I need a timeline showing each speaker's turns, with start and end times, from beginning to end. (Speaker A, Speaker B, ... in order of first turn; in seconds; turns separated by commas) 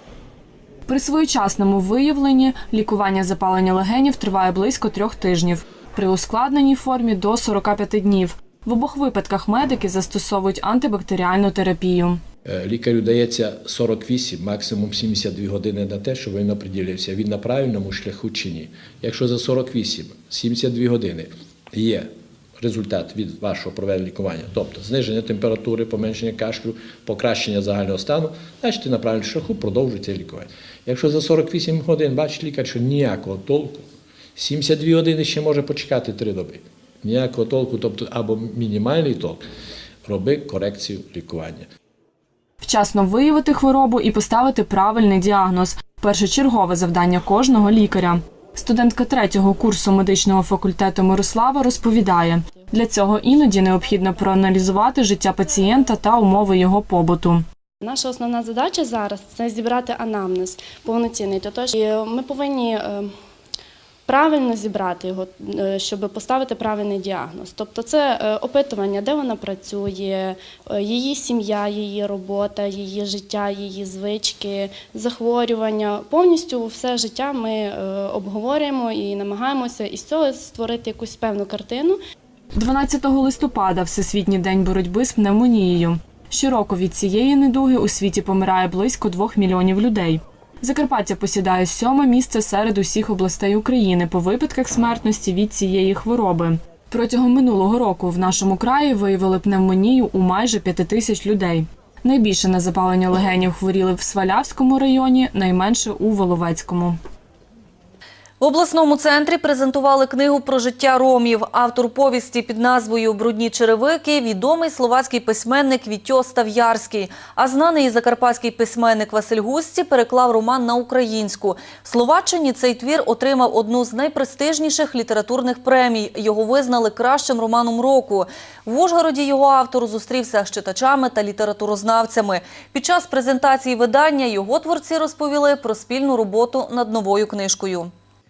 Speaker A: 0.9-12.2, Speaker B: 12.4-33.8, Speaker B: 34.4-39.4, Speaker B: 40.0-41.7, Speaker A: 42.6-57.5, Speaker C: 57.8-63.1, Speaker C: 64.1-82.0, Speaker A: 82.5-107.0, Speaker D: 108.4-137.9